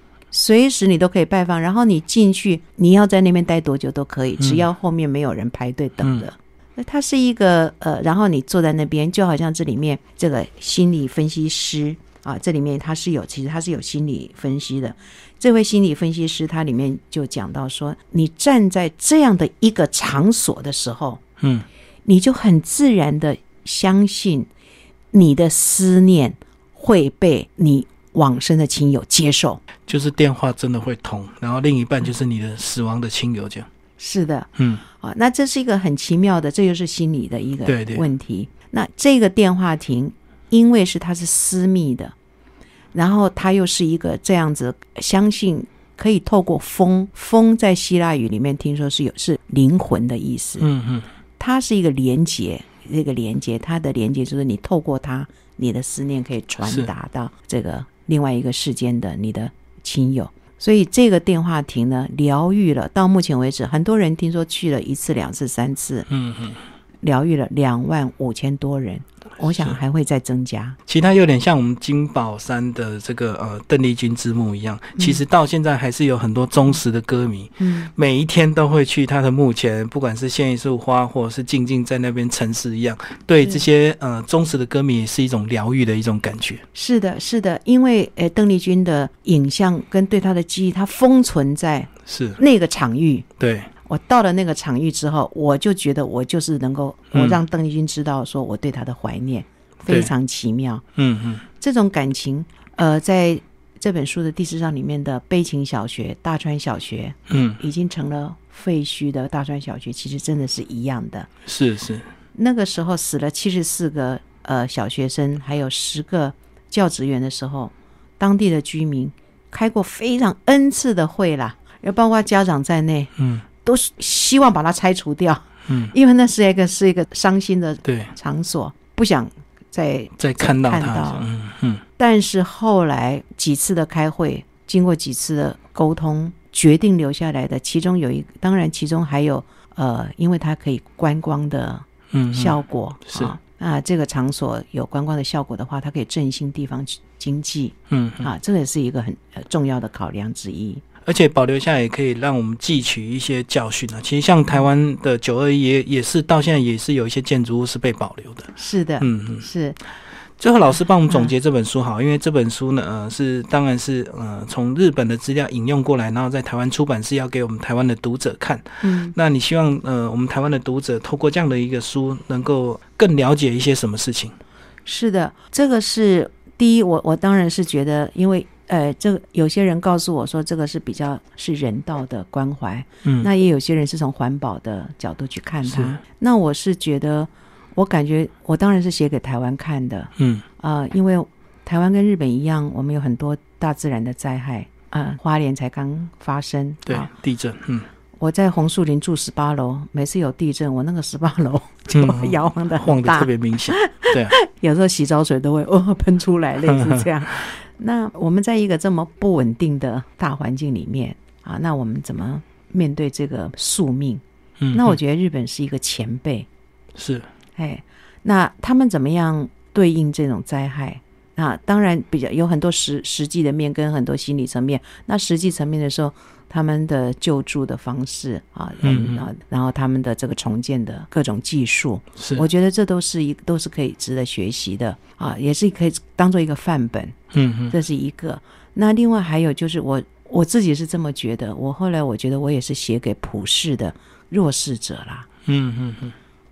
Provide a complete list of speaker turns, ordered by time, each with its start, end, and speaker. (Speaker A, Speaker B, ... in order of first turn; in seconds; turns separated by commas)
Speaker A: 0.3-21.2, Speaker B: 4.4-4.6, Speaker B: 6.0-6.3, Speaker B: 21.4-21.6, Speaker A: 22.1-24.5, Speaker A: 25.1-29.6, Speaker B: 29.9-33.7, Speaker A: 34.0-42.1, Speaker B: 34.6-34.8, Speaker B: 37.6-38.0, Speaker A: 42.9-50.7, Speaker B: 50.6-51.1, Speaker A: 51.4-66.1, Speaker B: 56.6-56.9, Speaker B: 66.1-66.6, Speaker A: 67.0-70.8, Speaker B: 69.4-69.8, Speaker B: 70.9-86.6, Speaker A: 77.6-77.9, Speaker A: 86.7-93.2, Speaker B: 92.0-92.4, Speaker B: 93.4-93.7, Speaker A: 93.8-100.8, Speaker B: 97.1-97.4, Speaker B: 101.0-101.4, Speaker A: 101.6-111.3, Speaker B: 107.3-107.6, Speaker B: 111.5-112.1, Speaker A: 112.3-131.2, Speaker B: 123.2-123.4, Speaker B: 125.7-125.9, Speaker B: 127.8-128.1, Speaker B: 130.2-131.8, Speaker A: 132.0-150.8, Speaker B: 142.1-143.3, Speaker B: 147.9-148.3, Speaker B: 151.0-159.5, Speaker A: 158.6-159.8, Speaker B: 160.4-174.3, Speaker A: 168.8-169.1, Speaker A: 174.8-197.1, Speaker B: 185.6-186.0, Speaker B: 190.2-190.4, Speaker B: 196.8-197.9, Speaker A: 198.2-214.2, Speaker B: 201.9-204.3, Speaker B: 206.6-207.1, Speaker B: 214.6-215.0, Speaker A: 214.7-216.5, Speaker B: 216.9-217.3, Speaker A: 217.6-237.2, Speaker B: 228.8-229.2, Speaker B: 232.2-232.4, Speaker B: 237.3-237.7, Speaker A: 237.7-245.3, Speaker B: 245.4-246.1